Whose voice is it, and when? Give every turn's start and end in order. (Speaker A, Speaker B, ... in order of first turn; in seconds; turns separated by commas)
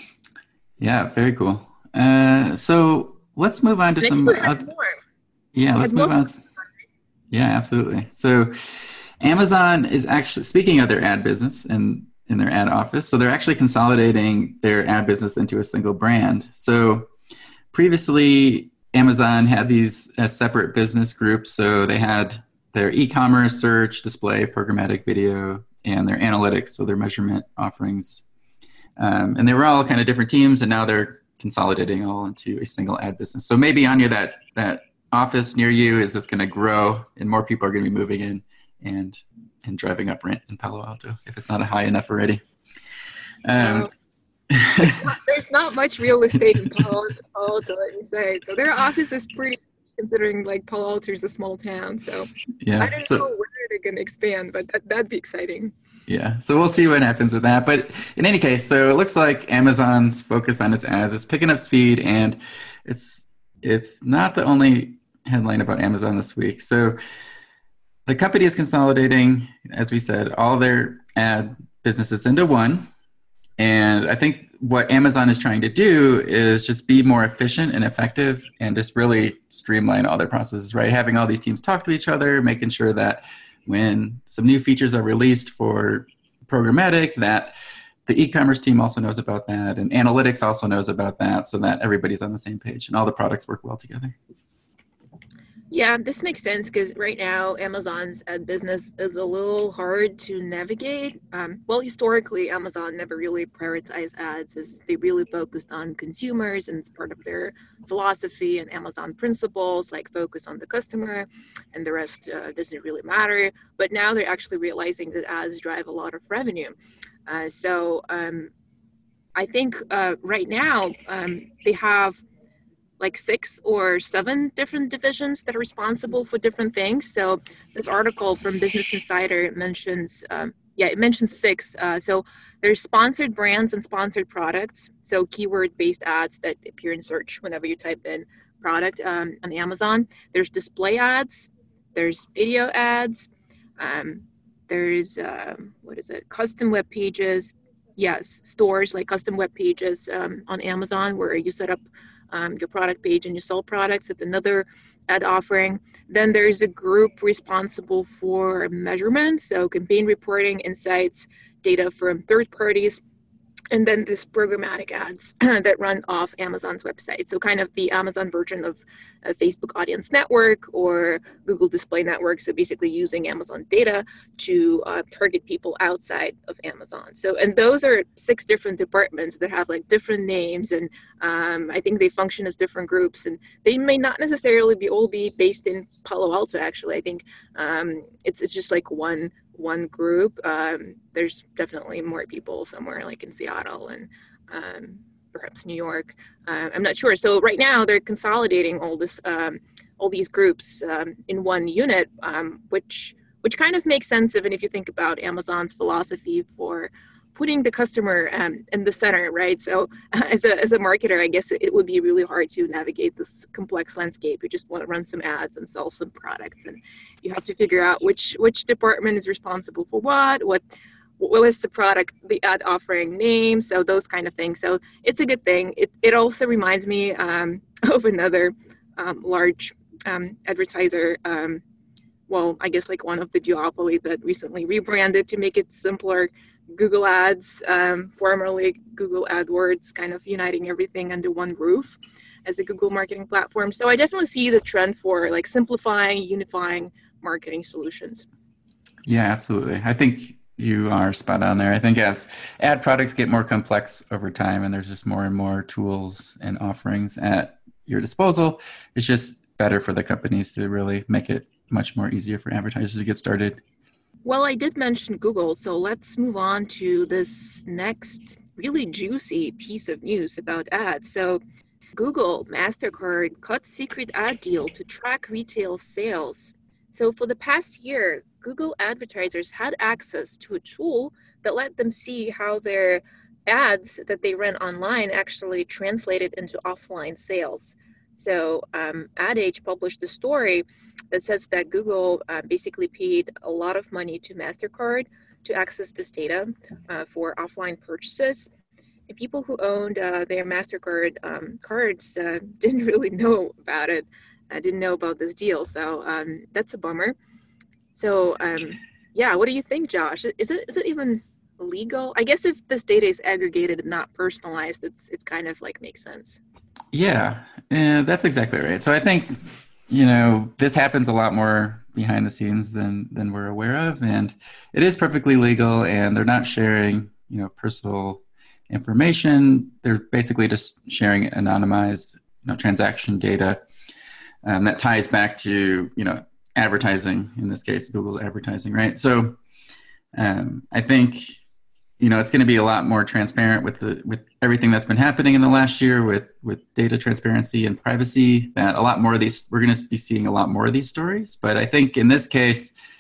Speaker A: 0.8-4.7, Speaker B: 4.0-5.0, Speaker A: 5.5-6.4, Speaker B: 5.8-6.4, Speaker A: 7.3-8.5, Speaker A: 9.2-17.1, Speaker A: 17.7-28.2, Speaker A: 29.0-42.4, Speaker A: 43.5-43.9, Speaker B: 43.5-43.9, Speaker A: 44.5-45.0, Speaker B: 44.8-52.3, Speaker A: 52.6-53.3, Speaker B: 52.8-55.7, Speaker A: 56.1-67.0, Speaker A: 68.1-72.9, Speaker A: 73.6-87.5, Speaker A: 88.1-94.2, Speaker B: 95.7-116.8, Speaker B: 117.3-118.5, Speaker B: 119.4-122.2, Speaker B: 123.0-163.0, Speaker B: 163.7-220.6, Speaker B: 221.2-231.6, Speaker B: 232.3-248.3, Speaker A: 249.1-263.6, Speaker B: 264.2-271.4, Speaker B: 272.0-298.5, Speaker B: 299.1-307.2, Speaker B: 307.9-316.4, Speaker A: 316.9-319.4, Speaker A: 319.9-333.6, Speaker A: 334.4-339.4, Speaker A: 340.1-341.4, Speaker A: 342.0-352.7